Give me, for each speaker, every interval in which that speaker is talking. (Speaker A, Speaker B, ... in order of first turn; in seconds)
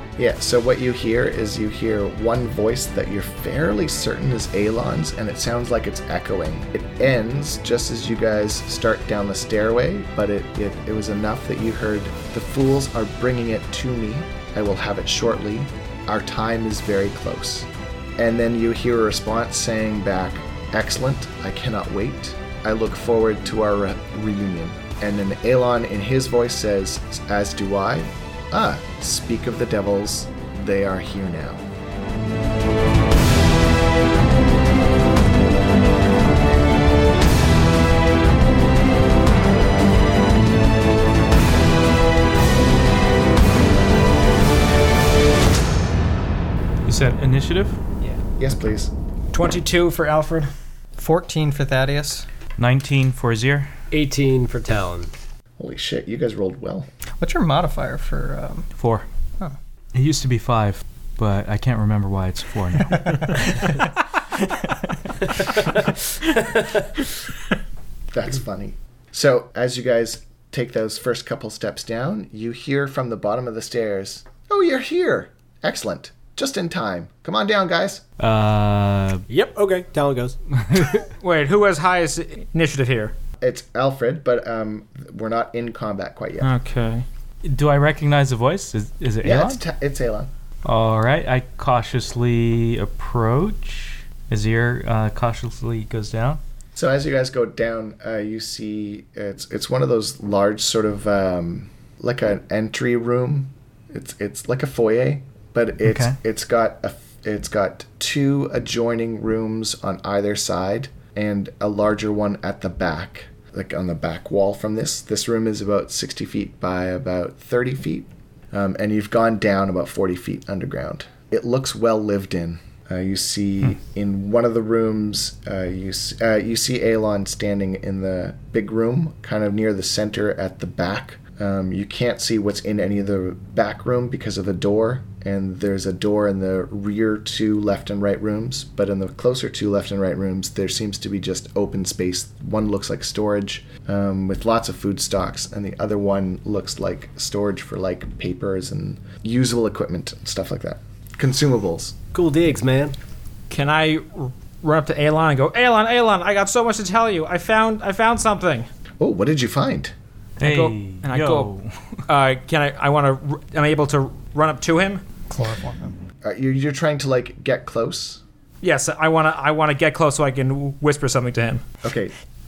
Speaker A: 0.1-31.6, 48.4-48.9, 55.6-56.9, 68.1-78.0, 83.4-86.5, 89.2-90.3, 96.7-151.9, 159.0-159.9, 166.2-168.2, 171.8-172.1
Speaker B: 46.8-47.8, 52.6-53.7, 58.8-59.0, 59.9-63.7, 78.2-79.2, 80.6-80.9, 87.4-89.6, 90.6-96.4, 105.8-106.2, 160.4-161.7
Speaker C: 49.3-50.5, 81.0-83.1, 86.4-87.0, 153.5-158.7, 160.4-161.5, 162.1-165.0, 168.6-171.6
Speaker D: 51.0-52.2, 57.2-58.7, 165.3-165.9
Speaker E: 53.9-55.1, 79.3-81.0, 152.1-152.9